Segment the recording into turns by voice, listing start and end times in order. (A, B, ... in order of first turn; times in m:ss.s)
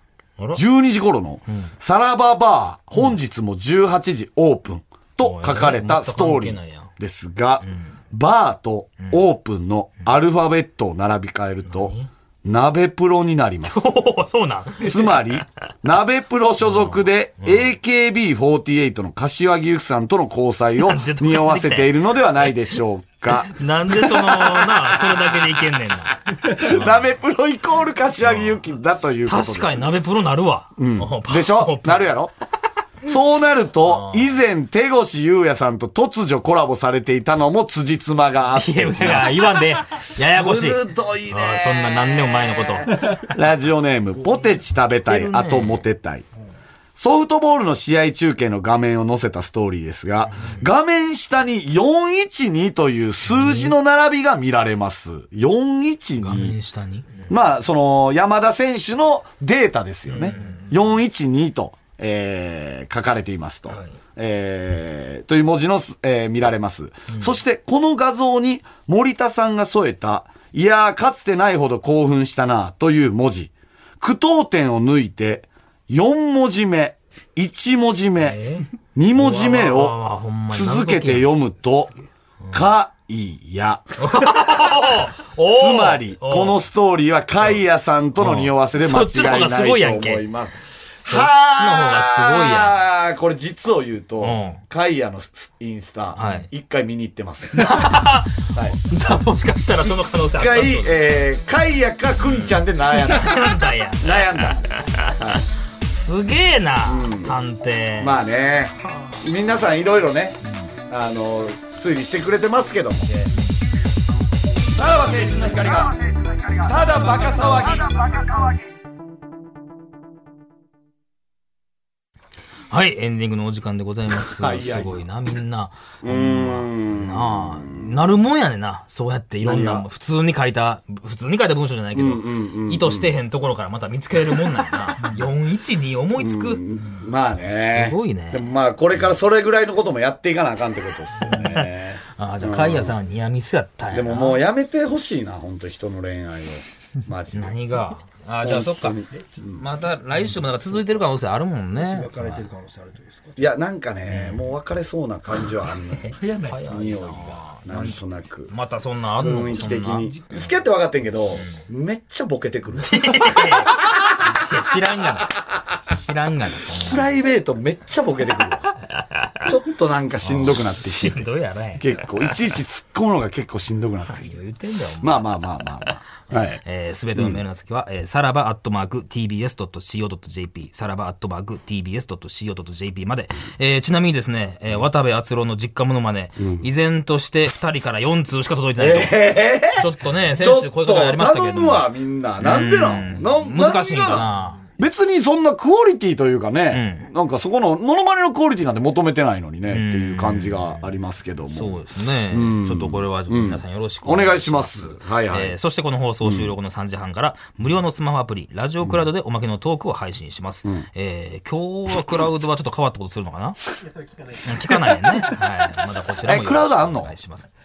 0:00.5-0:13.8 A
0:05.2-0:06.9 B
0:11.7-0:12.1 B
0:13.7-0:15.4 B
0:14.8-0:25.5 A
0:16.6-0:17.7 B
0:20.8-0:22.0 B
0:23.3-0:27.1 B
0:26.3-0:29.9 A
0:29.2-0:32.1 B
0:30.8-0:32.3 A
0:33.0-0:46.2 A
0:33.9-0:34.3 B
0:38.6-0:43.3 B
0:45.0-0:45.8 B
0:47.0-0:56.5 A
0:53.3-0:53.7 B
0:56.2-0:57.3 B
0:57.3-1:18.4 A
1:00.1-1:00.6 B
1:18.2-1:21.3 B
1:18.9-1:20.0 A
1:20.5-1:21.9 A
1:22.5-1:23.8 A
1:24.0-1:26.6 B
1:25.5-1:37.9 A
1:28.2-1:30.2 B
1:31.0-1:32.8 B
1:34.2-1:34.6 B
1:36.2-1:36.5 B
1:37.5-1:41.0 B
1:38.5-1:38.8 A
1:39.9-1:45.4 A
1:42.2-1:48.1 B
1:46.8-1:47.4 A
1:48.0-1:53.2 A
1:54.7-1:56.0 A
1:56.5-1:58.2 A
2:02.7-2:16.6 B
2:04.3-2:05.0 A
2:06.0-2:07.9 A
2:09.4-2:09.8 A
2:11.9-2:13.1 A
2:16.2-2:22.9 A
2:17.4-2:18.4 B
2:21.2-2:24.4 B
2:23.9-2:27.6 A
2:27.3-2:32.4 B
2:28.4-2:29.6 A
2:31.7-2:33.5 C
2:33.4-2:38.5 A
2:34.1-2:34.5 B
2:35.9-2:38.0 B
2:36.1-2:36.9 C
2:38.5-2:40.2 B
2:39.2-2:44.1 A
2:40.0-2:40.5 C
2:41.3-2:41.6 B
2:42.8-2:47.1 B
2:46.7-2:48.8 A
2:49.2-2:49.5 B
2:49.4-2:54.4 A
2:50.2-2:52.4 B
2:54.2-2:55.9 B
2:55.0-2:56.6 A
2:56.6-3:11.9 B
3:08.8-3:25.6 A
3:12.4-3:14.6 B
3:16.7-3:17.1 B
3:19.7-3:20.8 B
3:21.5-3:33.6 B
3:26.2-3:26.5 A
3:34.4-3:37.5 B
3:36.2-3:37.1 A